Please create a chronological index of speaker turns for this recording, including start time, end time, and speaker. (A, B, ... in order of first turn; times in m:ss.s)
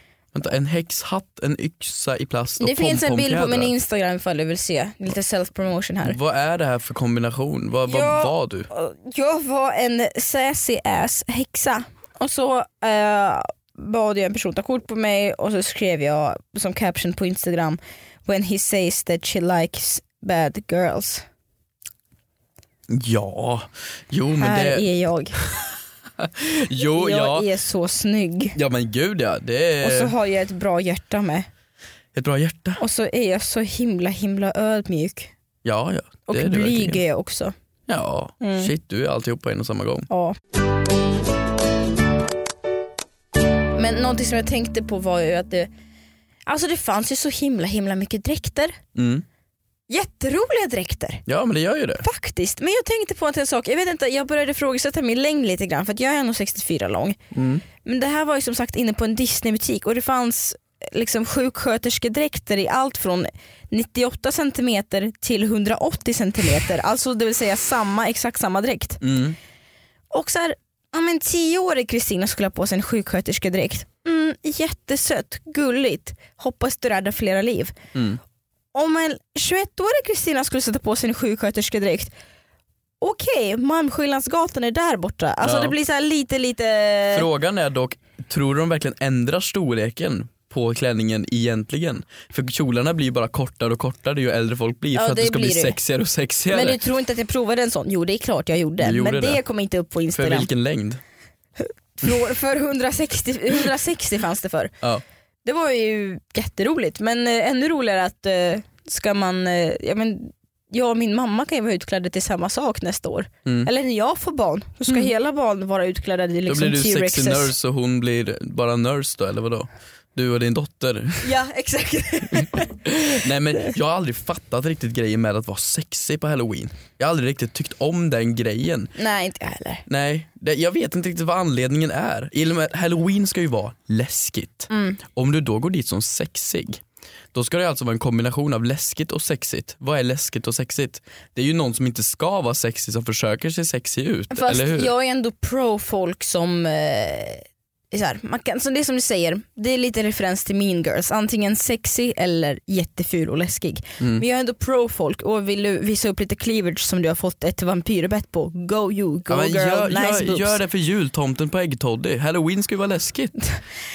0:00.3-0:03.7 A
0:02.6-0:06.2 B
0:06.0-0:08.7 A
0:07.9-0:21.3 B
0:22.9-0:24.8 A
0:24.4-0:25.4 B
0:25.4-0:25.7 A
0:26.2-0:27.5 A
0:26.9-0:28.6 B
0:28.6-0:30.2 A
0:29.8-0:31.5 B
0:32.1-0:32.8 A
0:32.8-0:35.3 B
0:35.6-0:37.0 A
0:36.3-0:37.5 B
0:37.9-0:40.1 A
0:38.4-0:38.7 B
0:40.1-0:40.4 B
0:43.8-0:45.7 B
0:46.5-0:48.8 B
0:49.0-0:49.2 A
0:49.9-0:51.2 B
0:51.3-0:52.0 A
0:52.0-0:57.2 B
0:57.3-0:57.6 A
0:57.8-1:09.0 B
1:09.0-1:09.4 A
1:10.1-1:17.8 B
1:17.9-1:18.2 A
1:18.7-1:22.1 B
1:23.0-1:27.3 B
1:25.4-1:25.8 A
1:27.1-1:36.8 A
1:34.9-1:35.8 B
1:36.5-1:40.5 B
1:38.8-1:39.4 A
1:40.1-1:41.0 A
1:41.6-1:44.7 B
1:45.4-1:57.5 B
1:53.5-1:53.7 A
1:56.5-2:01.3 A
2:01.2-2:02.8 B
2:02.8-2:09.0 A
2:09.0-2:09.8 B
2:09.9-2:16.8 A
2:14.7-2:15.0 B
2:17.3-2:24.9 A
2:24.3-2:40.6 B
2:39.3-2:43.3 A